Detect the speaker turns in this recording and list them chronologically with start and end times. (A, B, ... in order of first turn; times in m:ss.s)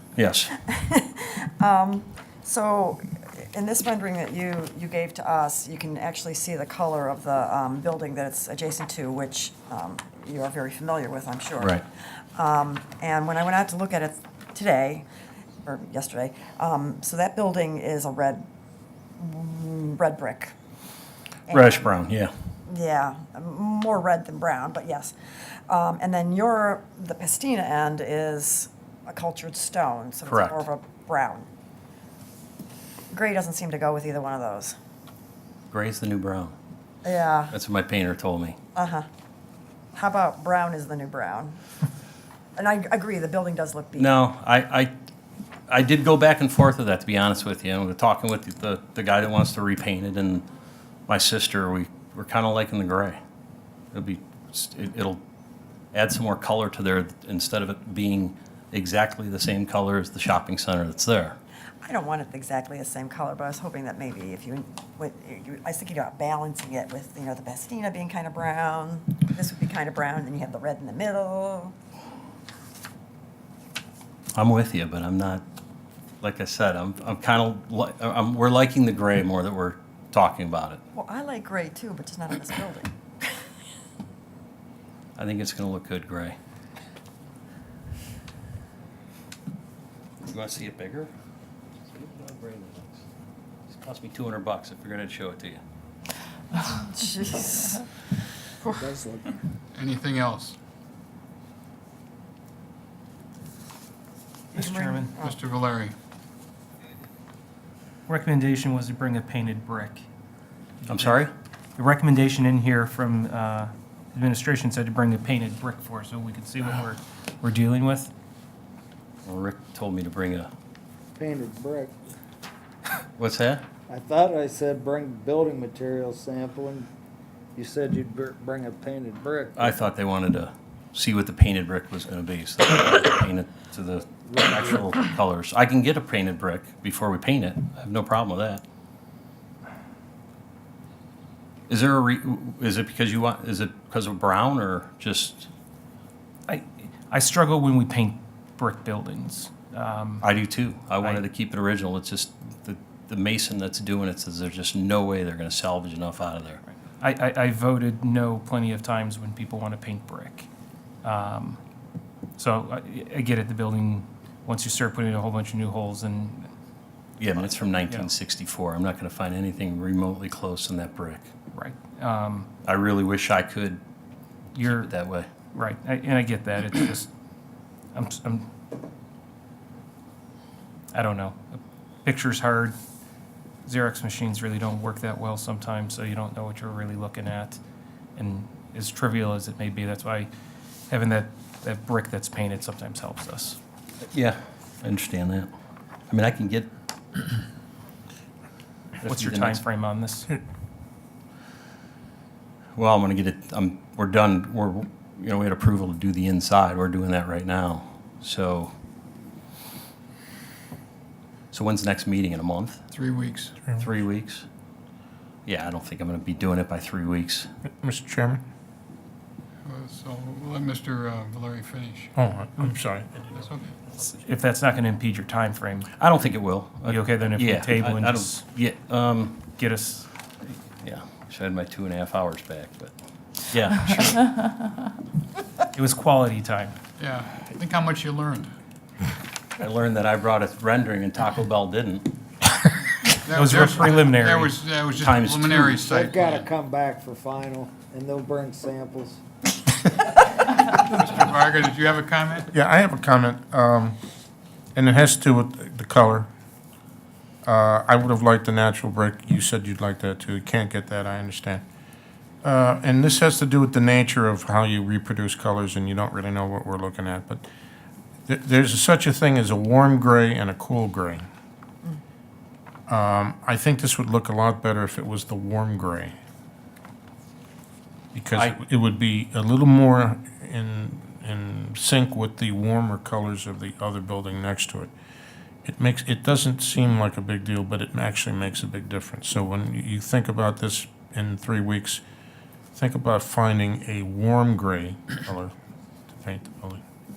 0:00.2-0:00.5 A
0:00.5-0:11.8 B
0:12.3-0:15.0 B
0:15.6-0:18.4 B
0:19.2-0:20.5 B
0:21.5-0:21.9 B
0:21.5-0:22.3 A
0:22.7-0:31.5 B
0:30.3-0:30.6 A
0:33.1-0:34.8 B
0:35.7-0:36.5 A
0:37.0-0:37.5 B
0:37.5-0:38.6 A
0:38.7-0:39.0 B
0:39.9-0:41.6 B
0:42.6-0:44.2 B
0:44.0-0:44.9 A
0:45.7-0:50.4 A
0:51.1-0:53.2 A
0:53.9-0:55.2 A
0:55.9-1:01.4 A
1:01.8-1:11.7 B
1:14.4-1:15.4 A
1:16.2-1:20.8 A
1:20.9-1:23.4 B
1:25.2-1:26.4 A
1:30.2-1:31.1 A
1:31.9-1:33.0 A
1:33.7-1:35.6 A
1:36.7-1:37.8 B
1:38.8-1:39.4 C
1:39.7-1:40.6 D
1:44.5-1:45.4 B
1:44.5-1:45.1 E
1:45.2-1:45.9 D
1:48.1-1:50.0 E
1:50.8-1:51.2 E
1:50.9-1:51.3 A
1:51.8-1:58.1 E
1:59.2-2:00.5 A
2:01.2-2:01.9 C
2:03.2-2:03.6 A
2:03.9-2:06.9 C
2:07.6-2:09.8 C
2:09.6-2:18.6 A
2:14.2-2:14.9 C
2:21.7-2:25.5 A
2:26.5-2:30.2 E
2:30.2-2:36.6 A
2:37.0-2:40.5 E
2:41.0-2:41.6 E
2:42.4-2:46.5 E
2:47.2-2:51.3 A
2:51.5-2:52.5 E
2:52.6-2:53.8 A
2:54.6-2:54.9 E
2:54.6-2:55.3 A
2:55.5-2:57.1 E
2:57.9-2:58.5 E
3:00.9-3:02.7 E
3:03.6-3:07.6 E
3:08.2-3:10.3 E
3:10.9-3:13.6 E
3:14.0-3:15.5 A
3:16.1-3:16.7 A
3:19.0-3:19.6 A
3:19.0-3:20.3 E
3:22.8-3:28.7 A
3:31.5-3:32.8 A
3:32.9-3:33.6 D
3:33.8-3:34.4 A
3:35.4-3:37.5 A
3:37.8-3:38.4 F
3:39.6-3:42.1 D
3:42.1-3:43.5 F
3:43.3-3:43.7 D
3:44.0-3:45.9 E
3:46.0-3:49.5 A
3:46.8-3:48.4 E
3:49.6-3:50.1 E
3:50.8-3:54.3 A
3:55.7-3:56.8 E
3:57.0-3:58.5 D
3:59.6-4:02.1 A
4:03.2-4:06.5 D
4:03.3-4:04.6 E
4:05.0-4:06.1 A
4:05.8-4:09.2 C
4:10.8-4:12.5 D
4:12.5-4:14.0 F
4:14.7-4:16.3 F
4:17.4-4:21.6 F
4:22.4-4:27.4 F
4:28.3-4:31.2 F
4:32.9-4:36.1 F
4:38.1-4:44.9 F
4:45.6-4:52.0 F
4:52.7-4:55.5 F
4:56.2-4:56.8 F